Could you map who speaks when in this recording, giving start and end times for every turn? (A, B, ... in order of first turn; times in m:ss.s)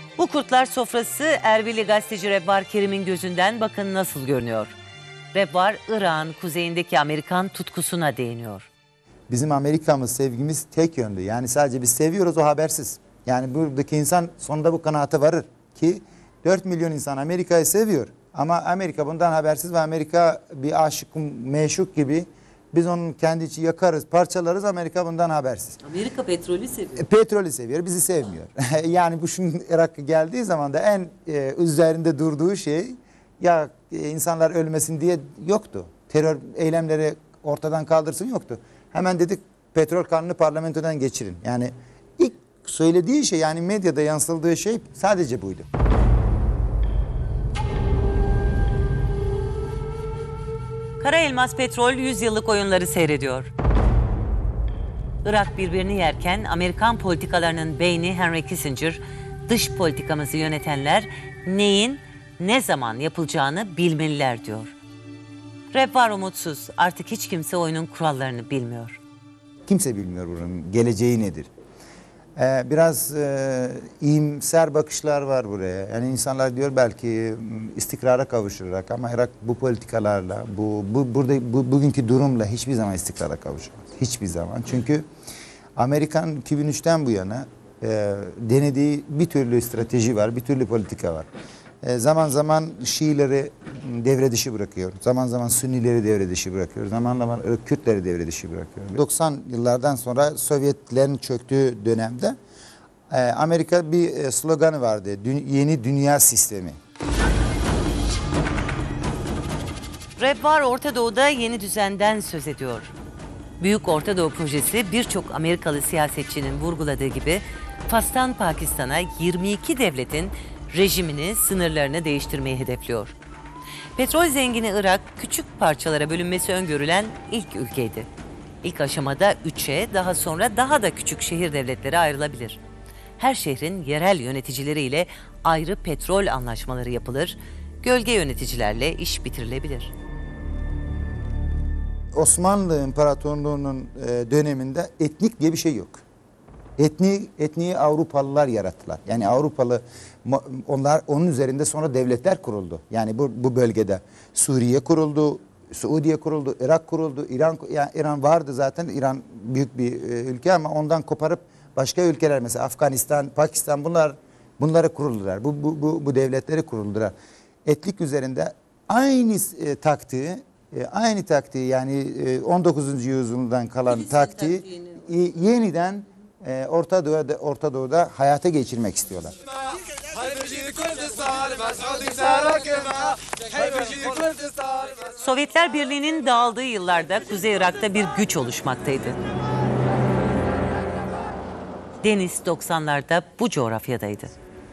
0:00.2-0:04.7 A
0:05.3-0:08.7 A
0:09.3-0:25.8 B
0:25.8-0:27.0 A
0:27.0-0:45.7 B
0:51.0-0:53.5 A
0:55.2-1:04.7 A
1:05.7-1:09.0 A
1:09.7-1:11.5 B
1:12.4-1:25.0 B
1:25.8-1:31.3 B
1:31.8-1:42.4 B
1:43.1-1:46.8 B
1:50.2-1:52.9 A
1:53.6-2:03.2 A
2:04.0-2:08.1 A
2:08.6-2:12.6 A
2:13.2-2:19.9 A
2:22.1-2:26.0 B
2:26.8-2:47.1 B
2:47.6-2:59.3 B
3:05.0-3:09.2 A
3:12.0-3:14.3 A